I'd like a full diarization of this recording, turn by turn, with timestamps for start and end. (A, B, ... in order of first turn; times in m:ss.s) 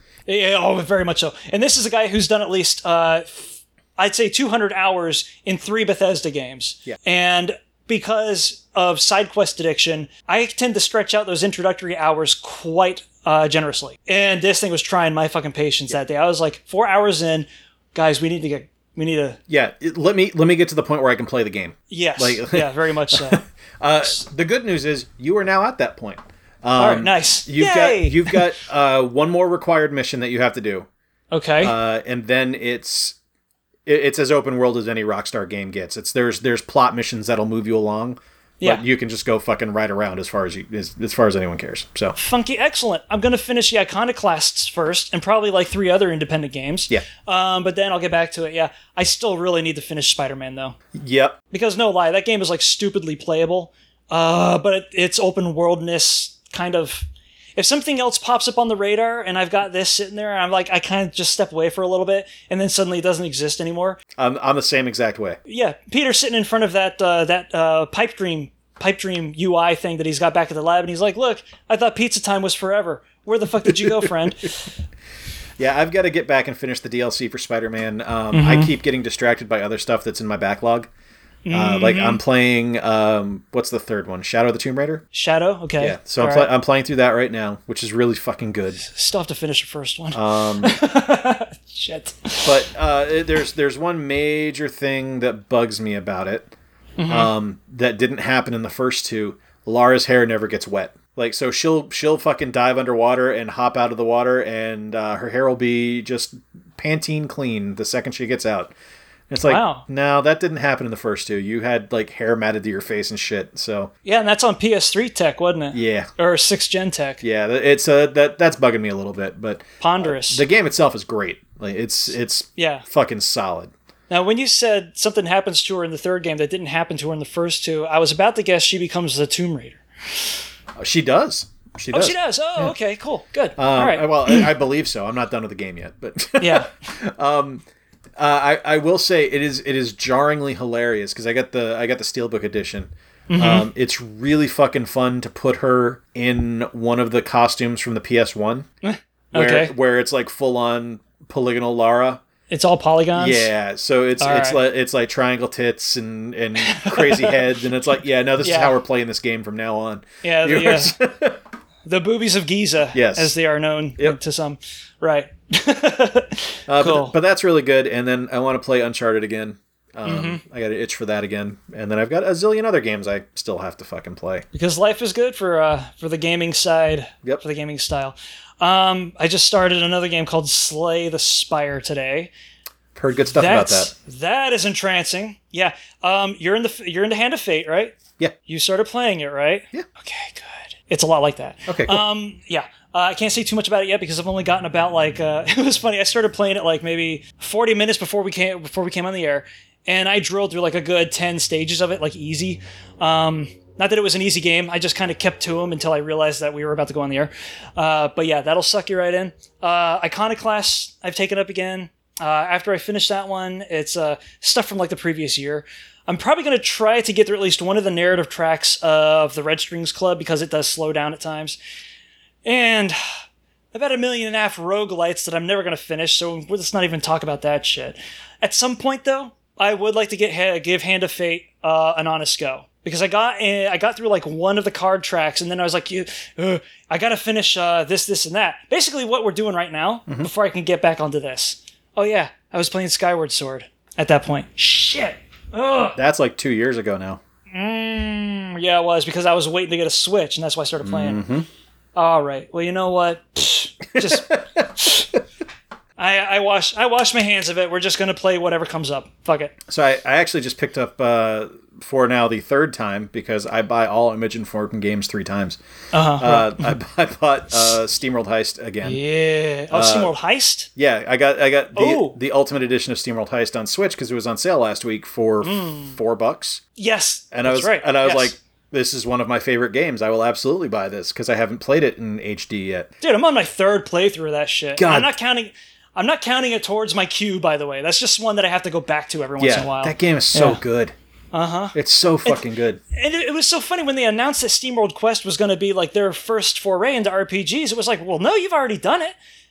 0:00.3-0:19.4 A
0:19.5-0:30.9 B
0:21.9-0:23.4 A
0:26.8-0:28.5 A
0:31.3-0:31.7 A
0:31.6-0:33.2 B
0:33.8-0:42.2 B
0:42.2-0:50.8 A
0:50.9-0:51.4 B
0:51.5-1:04.0 A
1:04.2-1:05.4 B
1:05.5-1:14.7 A
1:13.6-1:14.1 B
1:15.6-1:20.9 B
1:18.3-1:18.7 A
1:21.4-1:22.2 A
1:21.5-1:25.0 B
1:25.1-1:26.5 A
1:25.8-1:28.8 B
1:28.8-1:32.6 A
1:30.1-1:30.8 B
1:32.4-1:36.5 B
1:37.0-1:37.3 A
1:37.1-1:48.7 B
1:49.3-1:53.9 B
1:49.4-1:49.8 A
1:54.0-1:57.2 A
1:55.7-1:56.1 B
1:57.2-2:03.7 B
1:59.8-2:00.4 A
2:02.6-2:02.8 A
2:04.1-2:10.4 A
2:10.8-2:12.7 B
2:11.9-2:14.5 A
2:13.6-2:17.6 B
2:16.4-2:16.7 A
2:18.2-2:28.7 B
2:23.3-2:23.7 A
2:28.8-2:29.7 A
2:29.3-2:32.2 B
2:32.5-2:33.5 A
2:33.2-2:41.4 B
2:34.2-2:34.6 A
2:36.6-2:37.4 A
2:38.4-2:38.7 A
2:40.2-2:40.9 A
2:41.8-2:47.1 A
2:42.9-2:43.3 B
2:46.7-2:54.4 B
2:50.0-2:50.4 A
2:54.5-3:02.3 A
3:02.9-3:03.9 B
3:03.3-3:07.9 A
3:08.4-3:41.6 A
3:11.7-3:12.0 B
3:42.4-3:43.0 A
3:43.7-4:06.0 A
4:06.0-4:07.2 B
4:07.5-4:11.2 A
4:10.8-4:11.5 B
4:11.9-4:15.1 A
4:13.9-4:14.7 B
4:16.0-4:19.5 A
4:19.7-4:25.6 B
4:25.9-4:26.7 A
4:26.2-4:29.0 B
4:28.8-4:30.7 A
4:29.7-4:30.1 B
4:30.8-4:36.6 B
4:31.7-4:32.2 A
4:35.4-4:36.0 A
4:36.8-4:38.3 A
4:37.3-4:42.9 B
4:43.0-4:50.6 A
4:44.8-4:45.1 B
4:49.4-4:50.9 B
4:51.3-4:59.1 A
4:51.7-4:52.8 B